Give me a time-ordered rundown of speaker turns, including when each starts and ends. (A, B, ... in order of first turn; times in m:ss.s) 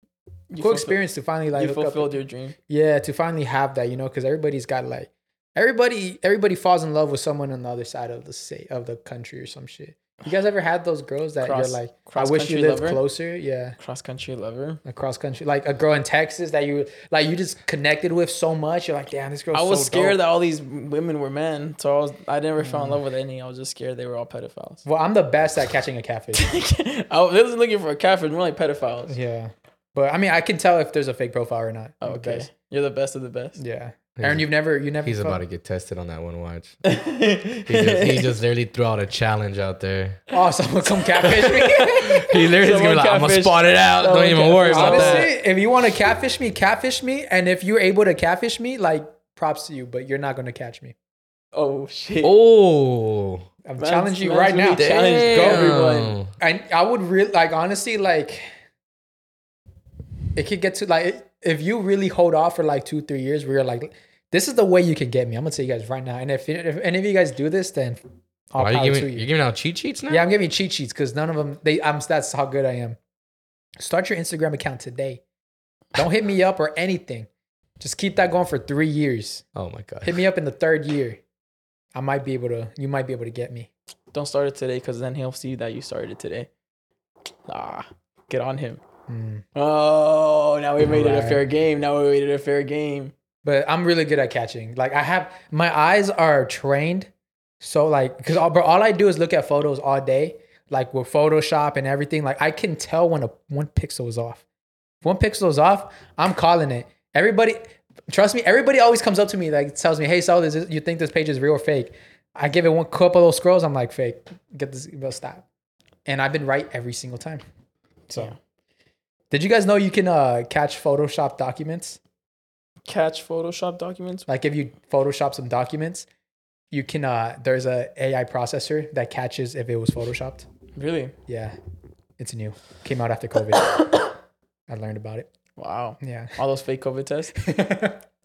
0:00.5-0:01.0 A
0:00.6-0:02.2 B
0:01.5-0:02.6 A
0:02.7-0:13.8 B
0:11.4-0:13.0 A
0:13.8-0:14.8 A
0:14.8-0:20.2 B
0:19.5-0:24.8 A
0:22.6-0:23.0 B
0:24.8-0:26.5 B
0:26.3-0:29.2 A
0:29.1-0:32.5 B
0:32.0-0:33.6 A
0:33.6-0:35.4 B
0:34.2-0:34.4 C
0:35.0-0:36.8 C
0:36.8-0:38.3 A
0:37.7-0:40.2 C
0:40.3-0:42.3 B
0:41.2-0:45.3 C
0:42.4-0:45.3 A
0:44.7-0:51.0 B
0:51.5-0:52.3 A
0:52.2-0:53.5 C
0:53.6-0:55.8 B
0:53.8-0:56.2 A
0:54.8-0:56.3 C
0:56.4-0:58.5 B
1:00.4-1:09.3 B
1:08.6-1:10.3 C
1:10.1-1:13.0 B
1:13.8-1:15.2 B
1:16.0-1:17.3 B
1:17.8-1:19.4 B
1:19.6-1:20.2 C
1:20.0-1:21.2 B
1:21.9-1:23.7 B
1:24.1-1:26.5 A
1:27.5-1:28.8 A
1:29.1-1:29.4 B
1:29.6-1:33.1 A
1:30.8-1:31.4 B
1:33.4-1:44.4 B
1:45.0-1:55.4 B
1:56.1-1:57.4 B
1:58.1-1:58.4 A
1:59.3-2:02.0 B
2:02.9-2:04.3 A
2:04.3-2:06.1 B
2:06.7-2:10.5 B
2:10.8-2:11.1 A
2:11.3-2:11.6 B
2:12.2-2:13.8 B
2:14.7-2:15.3 B
2:15.6-2:17.4 A
2:16.0-2:16.4 B
2:17.4-2:18.0 B